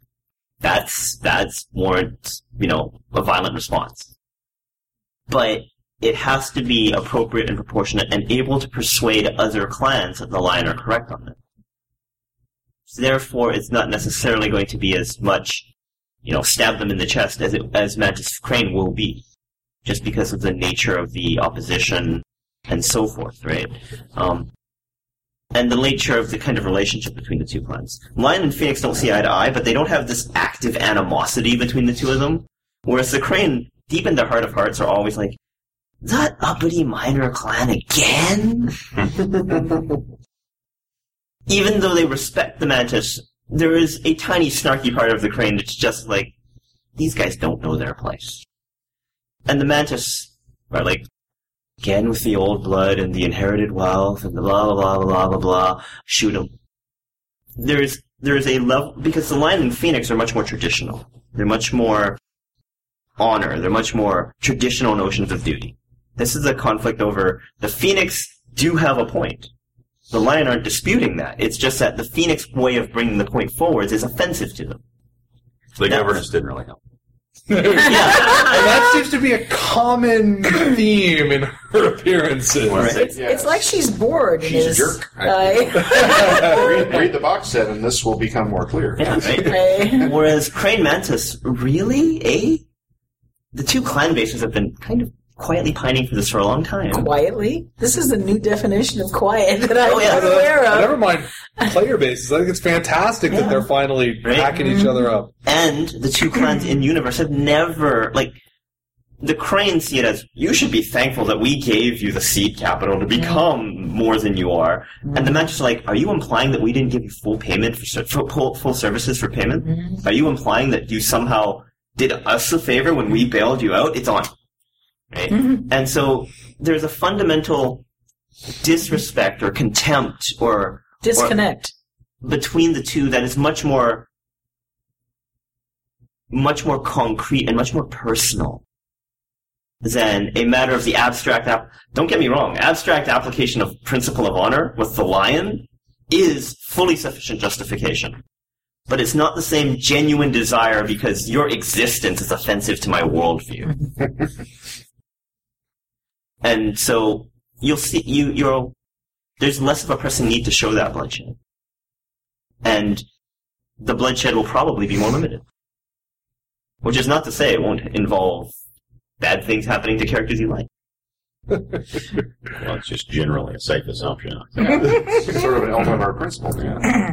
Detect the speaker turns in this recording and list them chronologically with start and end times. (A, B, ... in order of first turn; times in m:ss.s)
0:00.6-0:04.1 A
0:05.3-0:11.4 A
0:12.9-0:15.7 A
0:16.2-0:19.2 A
0:19.8-0:24.5 A
0:25.5-0:35.4 A
0:36.0-0:38.8 A
0:41.5-0:46.3 A
0:47.0-0:48.4 A
0:49.5-0:51.1 A
0:51.8-0:56.5 A
0:57.6-1:02.2 A
1:03.2-1:09.5 A
1:10.1-1:14.8 A
1:15.8-1:16.8 B
1:15.9-1:16.2 A
1:17.5-1:23.0 C
1:17.7-1:18.7 A
1:22.7-1:23.1 B
1:22.7-1:23.2 A
1:22.9-1:26.8 D
1:23.1-1:23.8 E
1:24.4-1:26.4 B
1:26.0-1:26.6 C
1:26.4-1:29.9 E
1:29.0-1:32.6 A
1:29.4-1:30.1 D
1:33.5-1:37.1 A
1:36.9-1:41.1 D
1:39.8-1:40.5 A
1:40.0-1:45.3 C
1:44.2-1:44.5 A
1:44.6-1:45.0 D
1:45.4-1:48.4 A
1:49.2-2:04.3 A
2:05.1-2:07.8 A
2:08.6-2:11.4 A
2:11.0-2:11.7 D
2:12.2-2:14.0 A
2:16.3-2:18.6 A
2:19.8-2:28.2 A
2:28.9-2:33.7 A
2:36.4-2:38.7 A
2:39.4-2:41.4 A
2:42.6-2:43.0 A
2:43.8-2:45.4 A
2:46.8-2:48.5 A
2:49.2-2:50.7 A
2:52.6-2:54.9 B
2:54.6-2:56.9 E
2:56.6-2:56.8 B